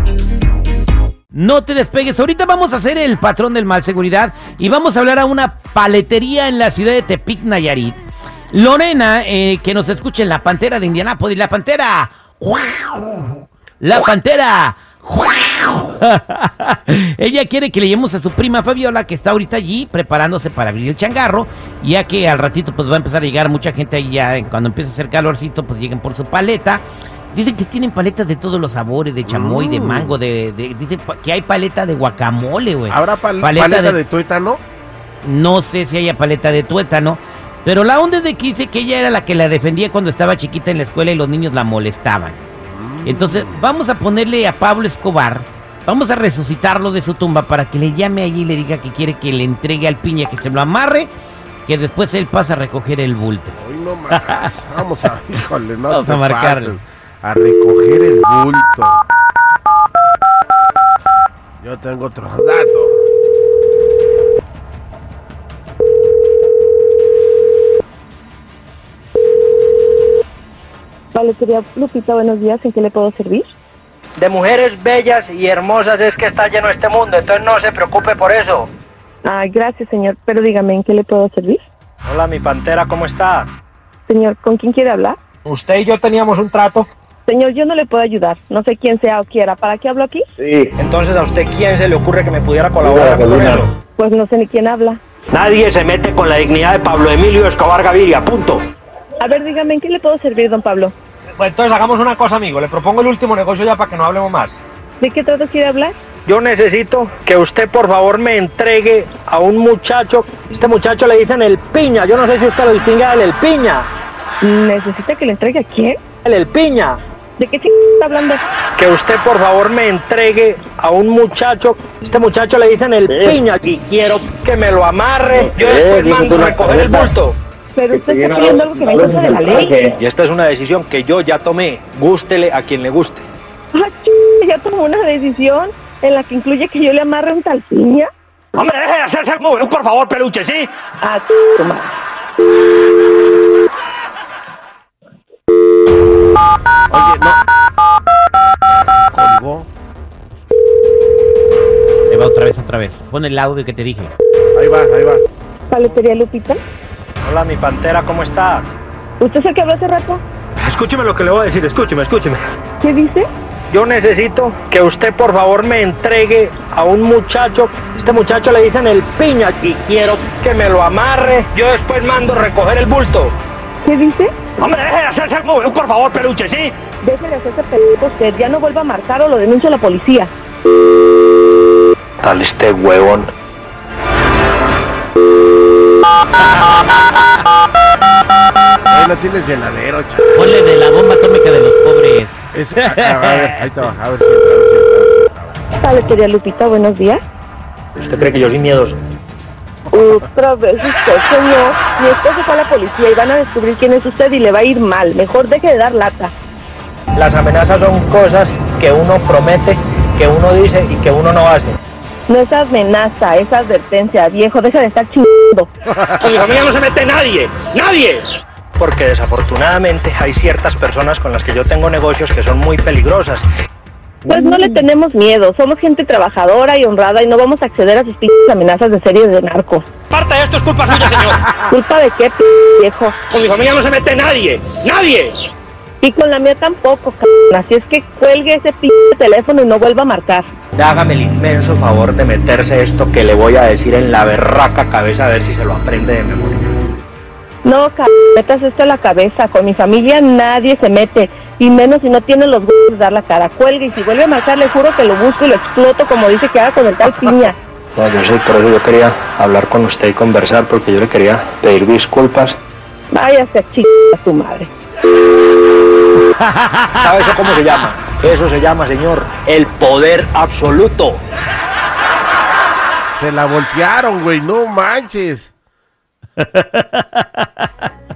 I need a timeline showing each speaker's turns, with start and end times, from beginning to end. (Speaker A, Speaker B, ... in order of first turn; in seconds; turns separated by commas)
Speaker A: 1.3-34.0, Speaker B: 29.2-30.2, Speaker B: 32.9-34.6, Speaker A: 35.2-42.4, Speaker B: 42.6-43.6, Speaker A: 43.0-51.1, Speaker A: 51.7-53.6, Speaker B: 53.5-59.0, Speaker A: 54.1-54.8, Speaker A: 55.9-56.8, Speaker B: 61.6-63.0, Speaker C: 71.1-73.5, Speaker D: 74.2-78.7, Speaker C: 79.2-81.6, Speaker D: 82.0-83.5, Speaker C: 84.1-85.2, Speaker D: 85.5-86.9, Speaker C: 87.3-90.2, Speaker E: 90.4-90.7, Speaker D: 90.8-93.7, Speaker E: 92.8-93.6, Speaker C: 94.0-95.0, Speaker D: 95.3-98.6, Speaker C: 99.2-100.9, Speaker D: 101.4-104.5, Speaker C: 105.0-105.9, Speaker D: 106.2-113.9, Speaker C: 114.4-116.0, Speaker D: 116.2-117.0, Speaker C: 117.4-118.4, Speaker D: 118.8-127.4, Speaker E: 123.1-123.4, Speaker E: 125.4-127.1, Speaker C: 127.7-129.7, Speaker E: 127.9-129.9, Speaker D: 129.5-133.2, Speaker C: 133.7-138.1, Speaker D: 138.5-140.7, Speaker C: 141.0-141.9, Speaker B: 146.9-147.4, Speaker B: 149.1-149.7, Speaker A: 152.1-154.1, Speaker B: 154.5-155.2, Speaker C: 155.7-156.6, Speaker D: 157.2-158.7, Speaker C: 159.2-160.2, Speaker D: 160.6-162.4, Speaker C: 162.8-163.3, Speaker D: 163.7-173.3, Speaker C: 173.8-174.3, Speaker D: 174.6-176.8, Speaker C: 177.0-180.3, Speaker D: 182.2-183.3, Speaker B: 188.9-190.4, Speaker A: 190.3-193.7, Speaker B: 192.5-195.6, Speaker C: 195.8-197.2, Speaker D: 198.0-199.0, Speaker C: 199.9-206.3, Speaker D: 207.1-211.8, Speaker C: 212.3-215.7, Speaker D: 216.2-223.5, Speaker C: 224.2-229.8, Speaker D: 230.1-231.5, Speaker C: 231.6-233.2, Speaker D: 233.3-235.4, Speaker C: 236.0-240.5, Speaker D: 240.8-246.7, Speaker C: 247.6-257.6, Speaker D: 257.9-262.6, Speaker C: 263.1-264.7, Speaker A: 266.4-267.0, Speaker D: 267.0-271.2, Speaker B: 273.1-275.5, Speaker A: 276.4-277.7